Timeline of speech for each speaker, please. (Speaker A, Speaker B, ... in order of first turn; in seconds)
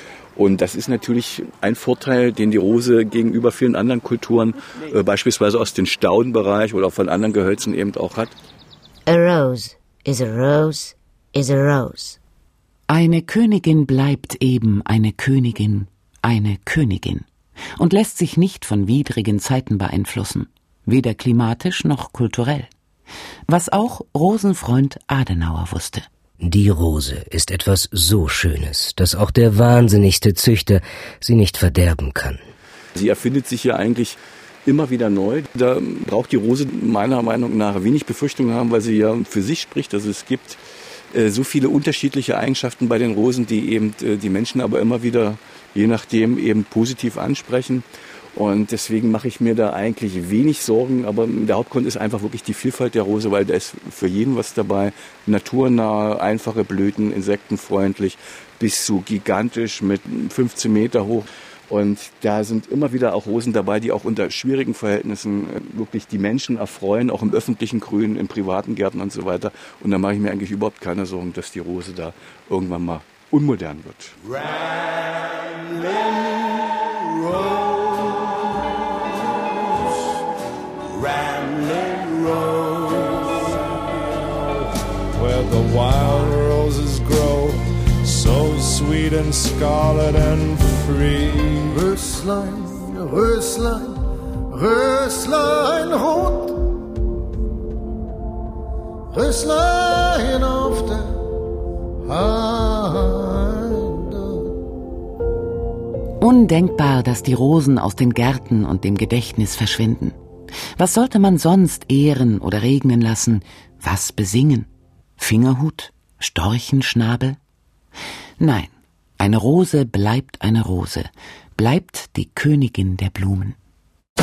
Speaker A: 0.4-8.3, 33.0-40.6, 41.1-47.8, 48.4-74.2
Speaker B: 9.1-12.2
Speaker C: 12.9-22.7, 23.5-26.1, 106.2-110.2, 110.8-117.4, 118.4-123.6
Speaker D: 26.4-32.4
Speaker E: 74.3-78.4, 80.9-91.8
Speaker F: 91.7-93.9, 94.5-96.6, 99.1-101.2, 102.1-104.5